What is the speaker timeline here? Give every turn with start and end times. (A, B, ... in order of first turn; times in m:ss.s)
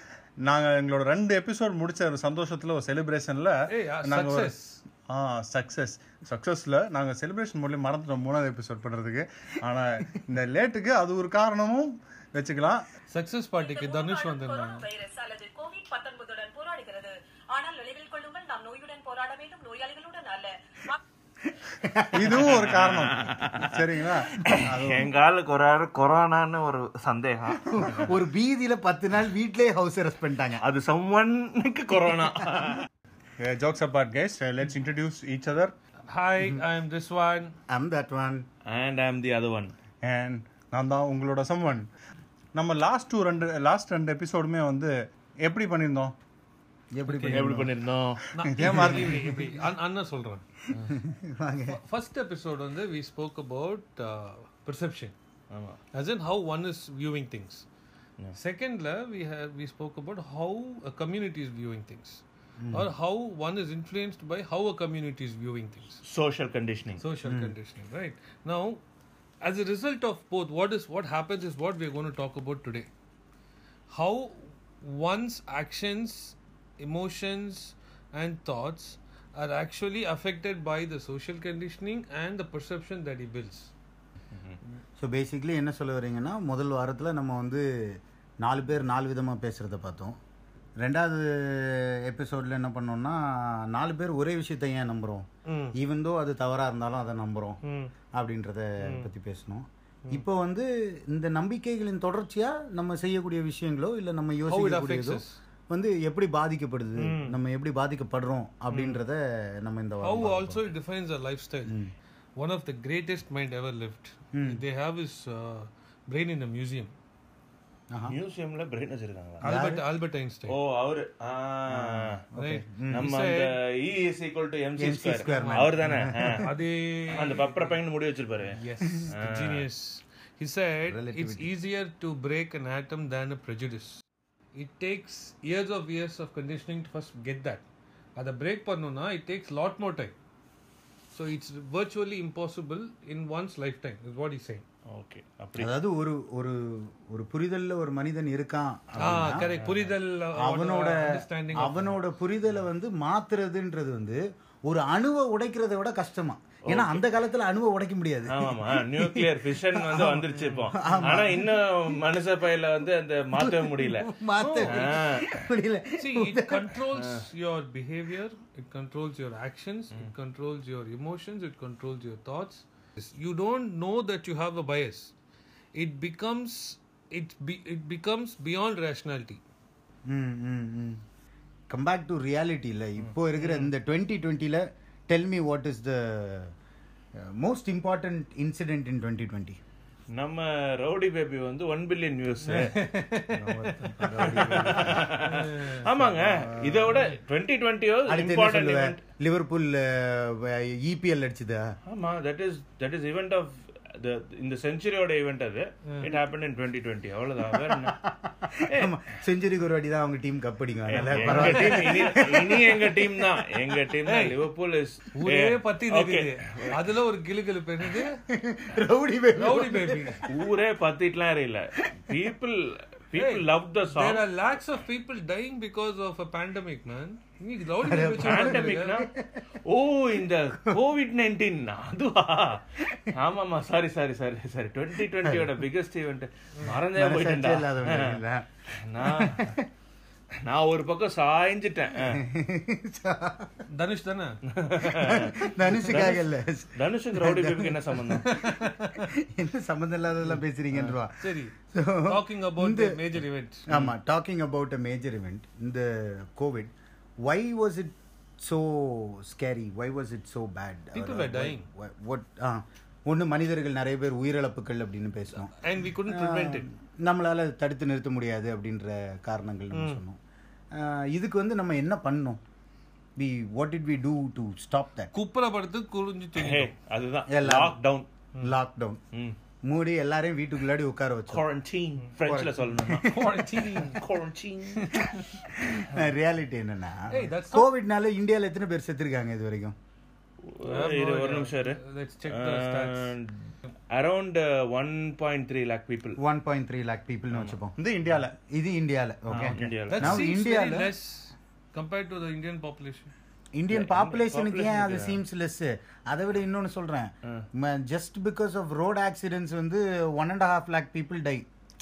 0:00.4-0:04.5 A
0:03.7-0:04.8 B
0:05.1-0:12.8 A
0:13.1-0:14.9 B
0:13.6-0:21.0 C
0:21.5-0:22.4 D
0:22.1-0:25.1 A
0:22.3-0:28.1 E
0:27.6-0:30.6 D
0:30.6-0:32.9 E
0:33.4-0:35.8 A
0:36.1-0:37.6 B
0:37.7-0:38.4 D
0:38.7-0:39.7 E
0:40.0-0:41.9 A
0:42.6-0:44.9 A
0:45.4-0:46.2 A
0:47.0-0:47.7 D
0:47.3-0:48.2 E
0:48.3-0:50.4 B
0:48.6-0:49.4 A
0:50.8-0:51.8 D
0:51.7-0:55.1 B
0:55.5-0:55.8 E
0:55.9-0:57.7 B
0:58.3-1:06.0 B
1:02.6-1:02.9 D
1:06.0-1:07.0 E
1:07.0-1:08.8 B
1:07.2-1:07.6 D
1:09.4-1:12.9 B
1:13.9-1:23.7 B
1:25.0-1:30.2 D
1:30.8-1:37.6 D
1:35.4-1:35.8 B
1:37.6-1:37.9 B
1:38.1-1:50.6 D
1:38.8-1:39.1 B
1:44.5-1:45.4 B
1:47.0-1:47.4 B
1:48.7-1:49.0 B
1:50.0-1:51.7 B
1:51.7-1:51.9 D
1:52.4-1:56.9 B
1:54.3-1:54.6 D
1:58.1-1:59.5 E
1:59.4-2:00.6 B
1:59.4-1:59.8 D
2:00.5-2:02.2 E
2:01.7-2:03.0 D
2:02.4-2:03.5 B
2:02.9-2:06.5 E
2:04.8-2:06.5 D
2:05.2-2:05.7 B
2:06.3-2:07.8 B
2:07.2-2:08.6 E
2:08.5-2:14.0 B
2:09.1-2:09.6 E
2:10.8-2:11.5 D
2:14.5-2:17.6 B
2:18.2-2:20.2 B
2:21.1-2:24.6 B
2:24.9-2:25.7 E
2:25.6-2:29.4 D
2:28.9-2:29.9 E
2:29.0-2:32.0 B
2:30.4-2:41.5 D
2:36.7-2:37.0 E
2:38.3-2:44.1 E
2:40.4-2:41.1 B
2:43.4-2:46.8 D
2:44.4-2:44.9 B
2:44.6-2:45.3 E
2:46.0-2:55.1 B
2:55.8-2:59.4 B
3:00.1-3:01.0 D
3:01.7-3:06.5 D
3:07.2-3:09.6 D
3:10.2-3:12.8 E
3:12.5-3:15.8 B
3:13.3-3:15.0 A
3:14.0-3:15.1 D
3:14.2-3:19.0 E
3:16.0-3:17.1 A
3:18.1-3:21.6 D
3:21.9-3:28.0 E
3:27.5-3:33.8 D
3:28.6-3:28.9 E
3:30.9-3:36.7 E
3:31.0-3:32.2 B
3:34.1-3:34.4 B
3:35.1-3:38.2 B
3:38.3-3:40.2 D
3:39.3-3:40.2 B
3:40.3-3:44.2 E
3:43.1-3:49.1 B
3:47.8-3:49.4 D
3:48.2-3:49.1 E
3:49.6-3:58.2 E
3:55.2-3:55.5 D
3:56.9-3:58.4 D
3:58.8-3:59.6 E
3:59.0-3:59.7 D
4:00.4-4:02.2 E
4:02.1-4:03.6 D
4:03.7-4:04.4 B
4:04.6-4:08.3 E
4:04.8-4:11.2 D
4:08.2-4:09.1 B
4:10.8-4:13.7 B
4:11.7-4:13.0 D
4:13.7-4:16.7 D
4:17.2-4:25.5 D
4:20.9-4:21.6 B
4:25.4-4:26.7 B
4:26.1-4:30.2 D
4:29.7-4:30.0 B
4:30.7-4:32.4 D
4:33.2-4:35.1 D
4:35.1-4:36.7 B
4:36.4-4:38.1 E
4:37.3-4:37.8 D
4:38.4-4:39.0 D
4:39.6-4:41.4 D
4:41.3-4:43.1 E
4:42.2-4:43.3 D
4:43.0-4:44.0 B
4:43.7-4:45.3 E
4:44.8-4:45.2 B
4:45.6-4:49.7 D
4:47.1-4:47.7 B
4:50.4-4:56.2 E
4:50.6-4:53.1 B
4:56.2-4:57.7 D
4:57.3-4:57.6 E
4:57.8-4:58.4 A
4:58.4-5:00.9 D
4:59.3-5:00.2 E
4:59.9-5:03.1 B
5:03.5-5:11.4 D
5:03.7-5:05.2 E